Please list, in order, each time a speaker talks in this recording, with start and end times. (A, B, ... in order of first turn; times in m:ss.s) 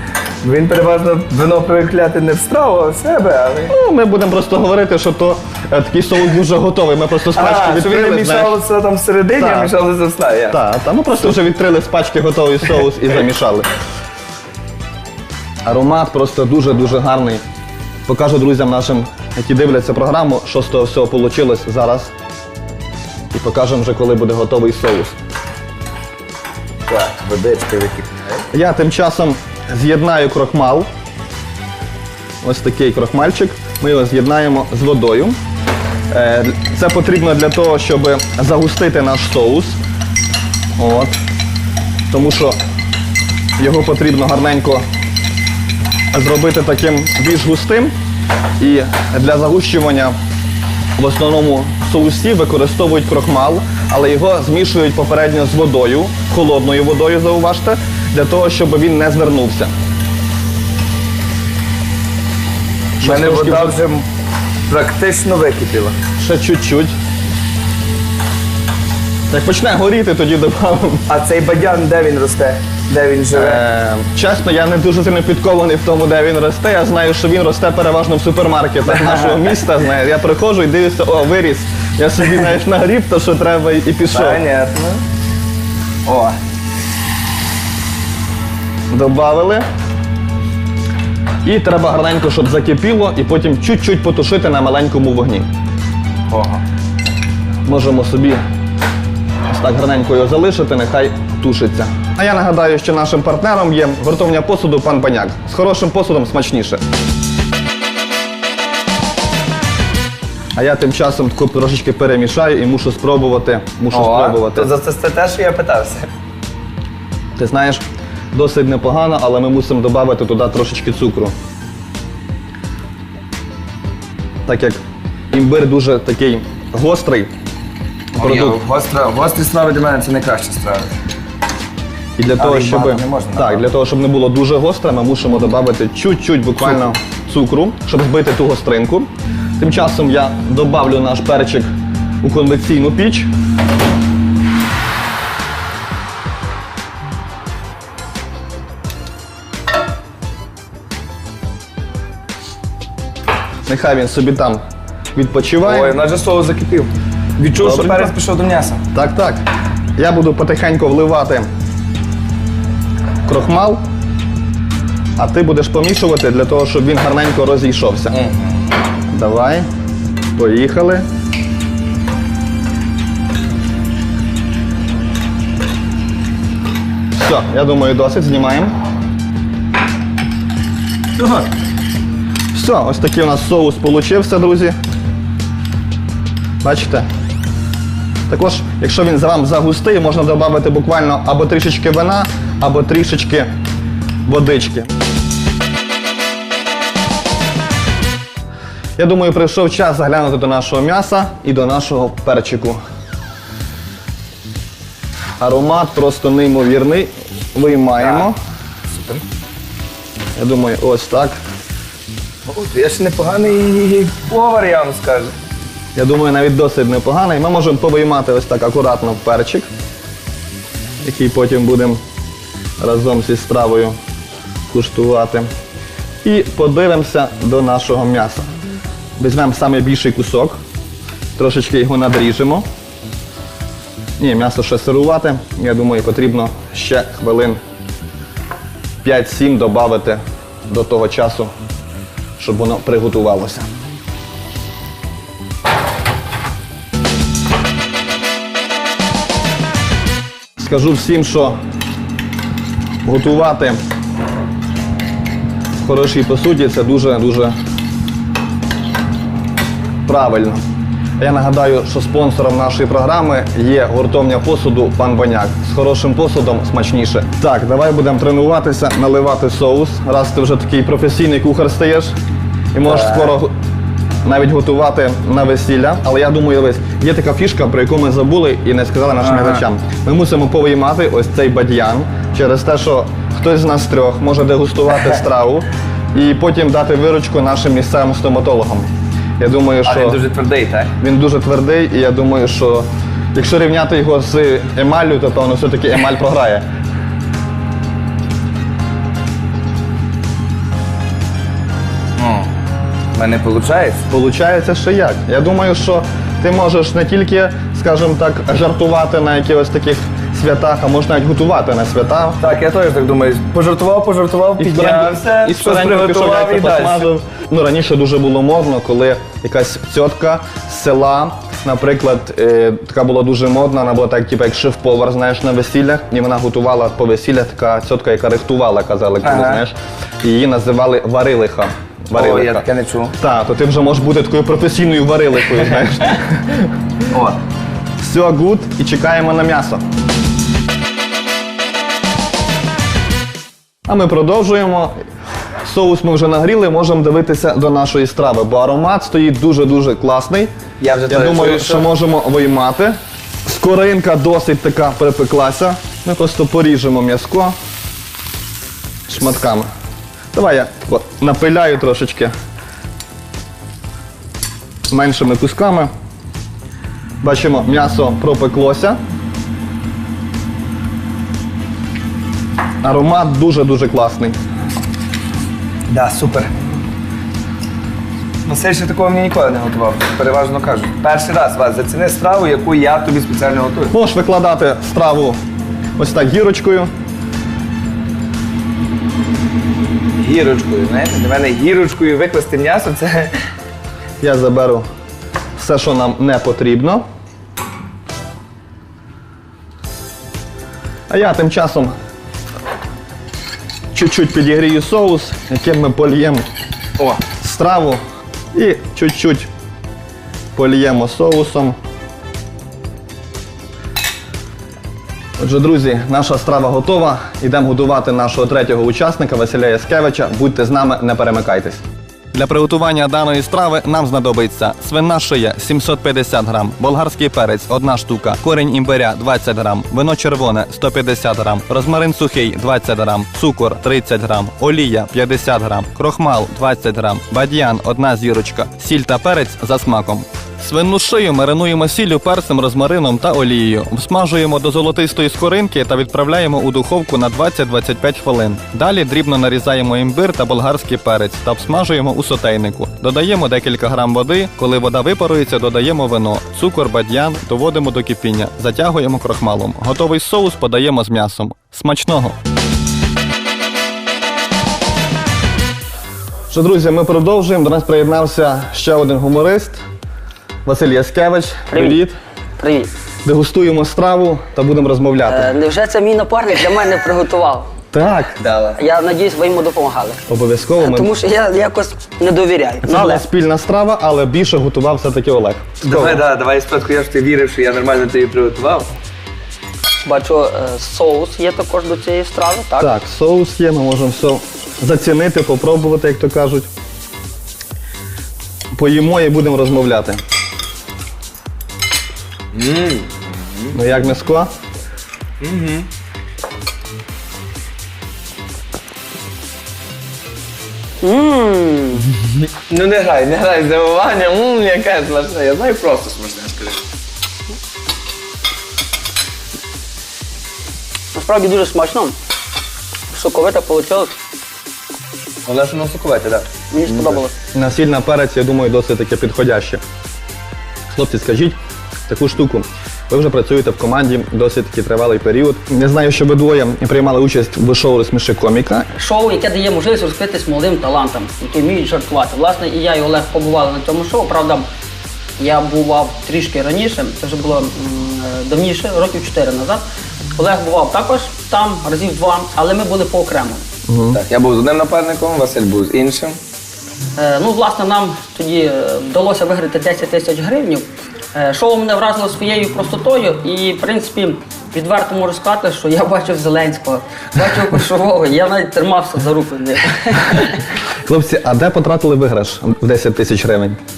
0:00.4-0:03.7 A
0:03.7-0:08.6 B
0:07.4-0:10.6 A
0:09.4-0:09.7 B
0:10.5-0:13.7 B
0:15.6-0:17.4 B
0:18.1-0:22.1 B
0:23.3-0:25.2 B
0:26.9-0:28.4 A
0:28.5-0:30.9 B
0:32.4-0:35.4 B
0:36.1-0:39.8 B
0:40.8-0:41.2 B
0:42.1-0:42.6 B
0:43.6-0:44.8 B
0:46.1-0:47.9 B
0:48.6-0:50.2 B
0:51.0-0:59.7 B
1:03.0-1:03.8 B
1:03.0-1:04.0 A
1:04.7-1:06.0 A
1:06.2-1:07.0 B
1:09.3-1:11.1 B
1:11.1-1:13.6 A
1:13.3-1:24.4 B
1:18.9-1:19.5 A
1:24.1-1:25.0 A
1:26.1-1:26.4 A
1:28.9-1:29.6 B
1:31.4-1:35.5 B
1:36.3-1:36.6 A
1:37.7-1:38.4 B
1:39.5-1:46.8 B
1:50.6-1:54.7 B
1:53.9-1:56.1 A
1:57.4-2:01.3 B
2:04.5-2:04.8 B
2:05.3-2:07.3 B
2:08.2-2:10.9 A
2:08.2-2:08.6 B
2:12.2-2:21.7 B
2:12.4-2:13.6 A
2:22.2-2:23.3 B
2:33.7-2:34.6 B
2:35.2-2:36.0 B
2:35.6-2:38.8 A
2:37.6-2:38.1 B
2:38.9-2:39.4 B
2:40.0-2:41.5 B
2:43.3-2:43.8 B
2:45.2-2:48.2 B
2:48.1-2:48.6 A
2:49.1-2:49.7 B
2:50.4-2:51.0 B
2:57.1-2:58.7 B
3:01.2-3:01.5 A
3:02.5-3:04.8 B
3:06.6-3:07.1 B
3:08.3-3:13.5 B
3:14.3-3:14.9 B
3:19.0-3:22.8 B
3:25.4-3:28.4 B
3:28.0-3:28.3 A
3:28.9-3:29.2 A
3:30.4-3:31.4 B
3:32.5-3:35.3 A
3:36.0-3:39.7 B
3:41.0-3:42.0 B
3:42.8-3:44.0 B
3:44.7-3:45.5 B
3:46.2-3:48.5 B
3:49.2-3:50.6 B
3:51.4-3:52.6 B
3:54.2-3:57.6 B
3:59.0-4:01.5 B
4:02.4-4:03.7 B
4:10.6-4:11.6 B
4:13.0-4:13.8 B
4:15.8-4:17.6 B
4:20.1-4:20.6 B
4:21.2-4:32.2 B
4:32.7-4:33.5 B
4:32.8-4:33.4 A
4:34.2-4:50.2 B
4:39.2-4:39.6 A
4:49.8-4:50.9 A
4:51.0-4:56.7 B
5:02.2-5:02.5 A
5:03.2-5:04.0 A
5:04.1-5:12.4 B
5:12.4-5:17.1 A
5:14.6-5:32.7 B
5:29.2-5:29.6 A
5:32.1-5:33.1 A
5:33.2-5:36.7 B
5:37.1-5:37.4 A
5:38.0-5:39.8 B
5:43.9-5:44.9 B
5:45.6-5:50.5 B
5:50.8-5:51.9 A
5:51.1-5:57.6 B
5:59.1-5:59.7 B
6:00.3-6:02.3 B
6:04.9-6:05.9 B
6:07.2-6:09.0 B
6:12.8-6:14.4 B
6:15.9-6:16.5 A
6:18.5-6:23.9 A
6:23.9-6:25.4 B
6:26.0-6:26.9 B
6:30.2-6:33.3 A
6:34.2-6:34.8 B
6:35.6-6:37.0 B
6:41.1-6:41.9 B
6:43.9-6:46.4 B
6:47.3-6:48.0 B
6:48.5-6:49.5 B
6:50.6-6:51.8 B
6:55.4-7:42.4 B
7:46.5-7:49.8 B
7:50.6-7:52.2 B
7:51.7-7:52.0 C
7:52.6-7:52.9 C
7:53.2-7:55.5 B
7:55.3-7:57.7 C
7:57.9-7:58.4 B
7:58.4-7:58.8 A
7:58.8-8:00.2 C
8:00.3-8:01.1 B
8:00.8-8:03.2 C
8:02.8-8:06.2 B
8:05.8-8:08.9 A
8:10.0-8:12.9 C
8:12.8-8:16.7 B
8:18.7-8:20.2 B
8:22.5-8:23.7 A
8:23.7-8:24.5 B
8:25.4-8:25.9 A
8:31.0-8:32.1 C
8:32.7-8:36.8 A
8:41.1-8:42.2 C
8:43.1-8:44.2 C
8:45.5-8:46.5 A
8:46.7-8:47.3 C
8:46.9-8:49.8 B
8:50.9-8:58.9 B
8:59.0-9:04.7 C
9:05.4-9:09.8 C
9:10.4-9:13.6 C
9:13.9-9:14.2 B
9:14.1-9:16.4 A
9:17.2-9:30.6 C
9:31.0-9:33.8 B